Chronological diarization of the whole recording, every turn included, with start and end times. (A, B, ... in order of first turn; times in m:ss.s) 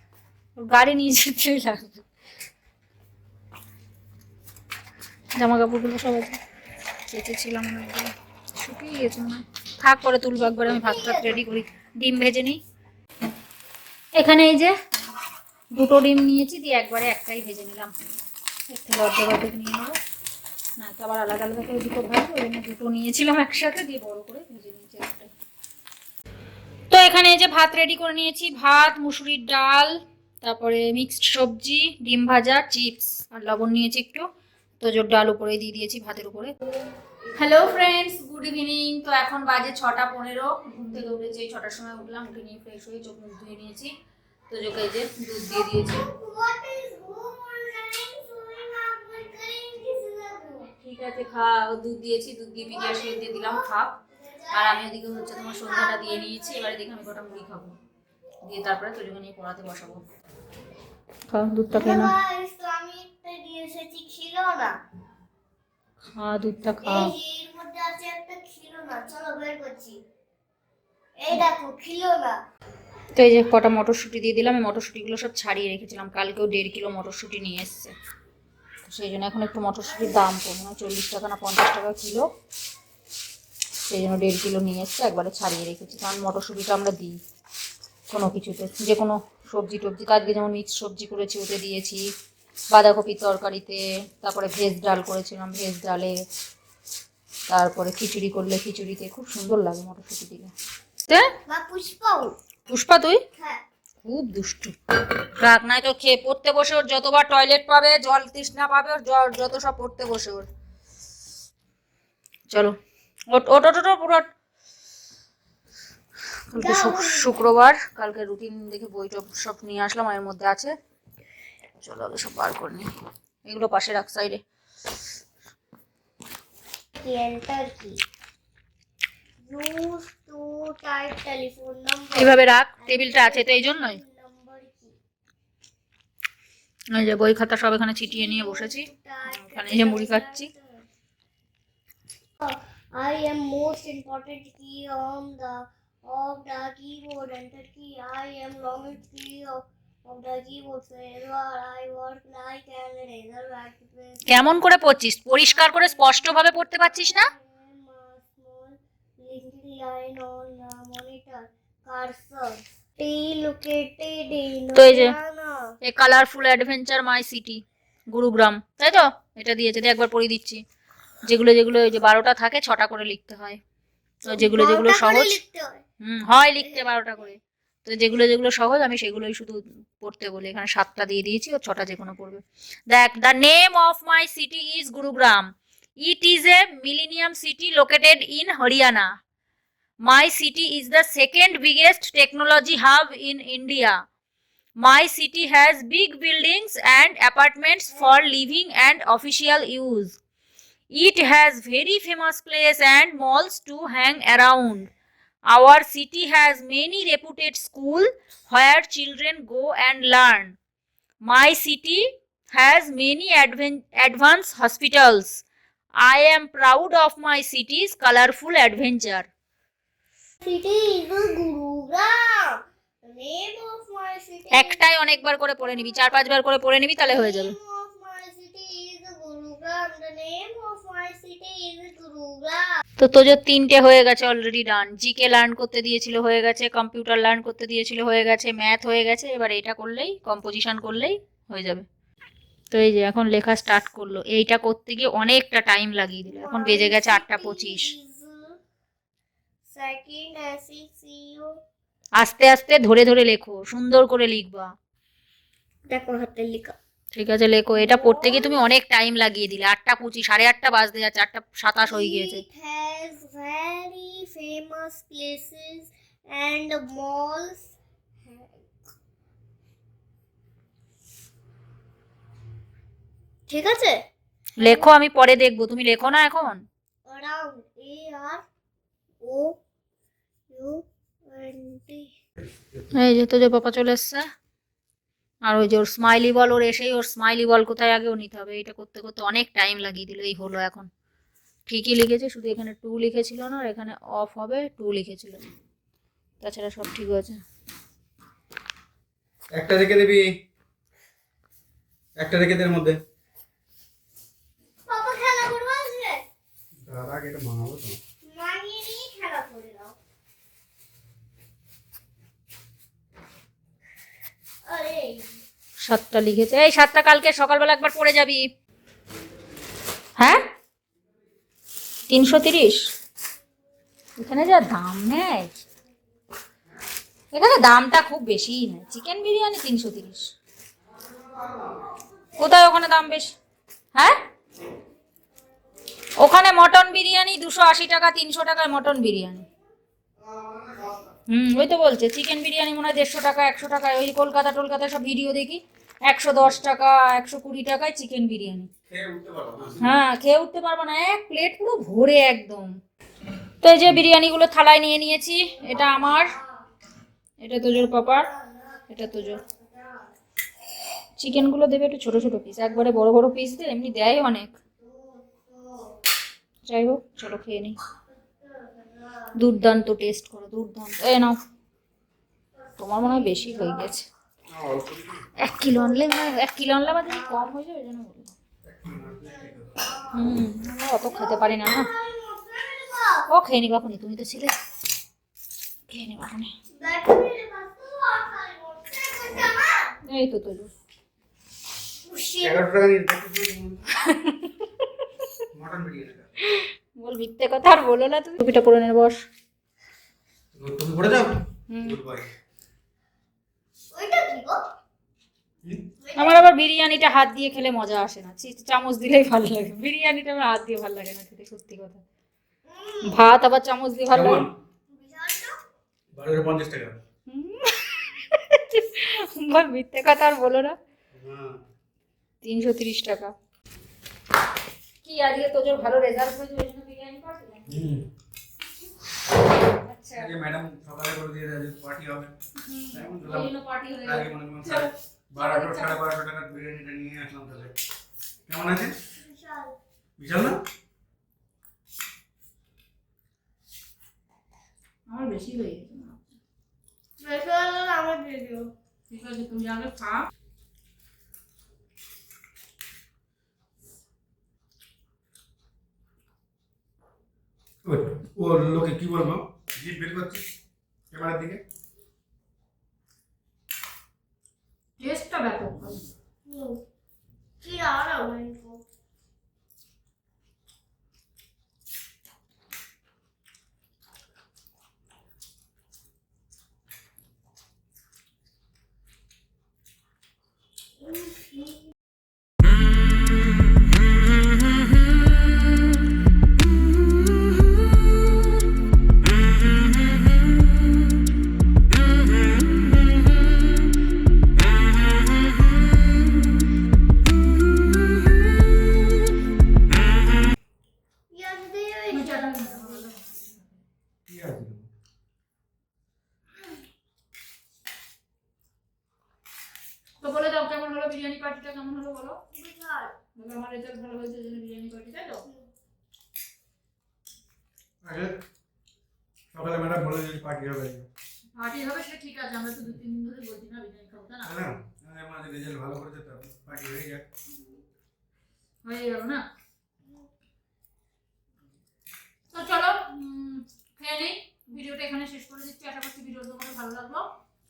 0:00.6-0:02.0 A
0:05.4-0:06.4 A
0:07.1-0:12.6 A
0:10.7-0:11.4 B
0:14.2-0:14.7 A
0:15.7-0:17.9 A
0:18.7-0:20.0 A
0:20.8-0:25.3 A
0:26.9-0:34.3 A
0:34.8-0:36.5 A
0:37.3-0:43.9 A
0:44.5-0:46.0 A
0:45.5-0:50.7 B
0:50.8-0:54.0 A
0:52.7-0:57.0 B
0:54.5-0:57.7 A
0:58.4-1:00.0 A
1:01.3-1:02.1 A
1:01.7-1:04.8 B
1:06.1-1:07.1 A
1:06.8-1:10.0 B
1:11.2-1:12.4 B
1:13.1-1:17.9 A
1:18.8-1:22.3 A
1:23.9-1:27.2 A
1:28.1-1:32.0 A
1:32.7-1:36.1 A
1:37.5-1:40.5 A
1:41.1-1:41.3 A
1:41.4-1:42.3 B
1:42.7-1:43.2 A
1:43.4-1:43.6 B
1:44.0-1:44.7 A
1:45.4-1:50.5 A
1:53.3-1:54.3 A
1:56.5-2:00.7 A
1:56.6-1:57.5 B
2:01.8-2:02.9 A
2:03.4-2:04.4 A
2:07.0-2:08.0 B
2:09.4-2:14.9 B
2:12.1-2:14.0 A
2:16.9-2:20.5 A
2:18.0-2:20.8 B
2:22.4-2:34.6 B
2:34.3-2:37.3 A
2:35.5-2:45.7 B
2:44.7-2:45.1 A
2:45.8-2:50.6 A
2:51.2-2:53.6 A
2:54.2-2:55.8 B
2:54.3-2:55.4 A
2:56.0-3:05.5 A
3:06.0-3:09.1 A
3:10.0-3:14.0 A
3:14.8-3:20.2 A
3:20.9-3:24.9 A
3:25.5-3:30.6 A
3:31.2-3:35.4 A
3:36.0-3:39.3 A
3:40.4-3:44.8 B
3:44.5-3:47.5 A
3:45.6-3:45.9 B
3:47.0-3:52.8 B
3:53.0-4:01.9 A
4:02.7-4:07.9 A
4:06.2-4:08.6 B
4:09.7-4:11.6 B
4:12.2-4:14.7 A
4:15.9-4:16.8 B
4:17.1-4:22.4 A
4:17.8-4:18.6 B
4:21.9-4:27.7 B
4:28.2-4:28.6 B
4:33.5-4:34.0 B
4:34.6-4:36.6 A
4:34.6-4:34.9 B
4:37.0-4:38.4 B
4:39.2-4:39.6 B
4:40.5-4:42.1 B
4:42.9-4:44.3 A
4:45.4-4:50.9 A
4:51.7-4:55.4 A
4:56.4-4:57.4 A
4:59.5-5:00.3 C
5:02.2-5:03.0 C
5:04.9-5:06.2 B
5:06.8-5:08.0 C
5:08.2-5:09.9 B
5:14.6-5:15.3 B
5:15.8-5:18.4 A
5:20.2-5:20.4 A
5:22.1-5:22.9 A
5:24.2-5:25.6 A
5:27.3-5:30.3 A
5:31.1-5:31.8 C
5:32.4-5:33.3 A
5:36.2-5:39.4 A
5:40.2-5:41.1 C
5:41.3-5:48.7 A
5:48.9-5:50.0 C
5:49.8-5:52.7 A
5:53.6-5:56.4 A
5:55.6-5:56.4 B
5:57.4-5:58.3 A
5:58.2-6:00.1 B
5:58.9-5:59.4 A
6:01.2-6:04.5 A
6:04.8-6:06.0 B
6:06.6-6:07.8 A
6:08.2-6:09.3 B
6:09.4-6:11.4 A
6:12.6-6:13.9 B
6:12.8-6:14.0 A
6:14.5-6:15.3 C
6:15.4-6:18.3 A
6:15.7-6:17.5 B
6:18.6-6:19.8 C
6:19.2-6:20.3 B
6:20.1-6:21.9 A
6:21.0-6:23.2 B
6:23.3-6:24.6 A
6:25.9-6:26.5 A
6:26.8-6:29.9 B
6:30.0-6:30.7 A
6:32.0-6:32.6 B
6:32.4-6:33.9 C
6:34.0-6:34.6 A
6:35.5-6:36.3 C
6:36.4-6:39.2 A
6:40.5-6:42.3 C
6:41.7-6:42.0 A
6:43.9-6:44.6 B
6:46.0-6:46.4 B
6:46.2-6:52.0 A
6:52.6-6:53.3 B
6:53.0-6:54.4 A
6:54.1-6:54.5 C
6:54.9-6:55.6 B
6:56.1-6:57.0 C
6:57.3-7:00.8 A
7:01.1-7:01.6 C
7:02.4-7:03.3 A
7:05.0-7:07.7 A
7:07.7-7:08.1 C
7:09.8-7:10.3 A
7:10.1-7:12.3 C
7:12.6-7:16.0 A
7:12.9-7:13.5 C
7:14.0-7:17.7 C
7:18.5-7:18.9 C
7:19.2-7:19.8 B
7:20.2-7:20.6 C
7:25.1-7:26.2 A
7:27.2-7:28.7 B
7:29.1-7:30.3 A
7:37.8-7:40.5 C
7:41.1-7:41.6 C
7:45.0-7:46.0 A
7:46.4-7:46.8 B
7:47.6-7:48.8 B
8:01.0-8:01.8 B
8:21.3-8:23.0 B
8:22.1-8:23.8 A
8:24.3-8:24.9 C
8:30.2-8:32.4 A
8:32.5-8:33.2 B
8:33.4-8:35.4 A
8:38.0-8:38.4 C
8:39.5-8:41.1 C
8:41.6-8:44.5 A
8:44.4-8:47.2 C
8:48.8-8:49.4 A
8:52.5-8:57.3 A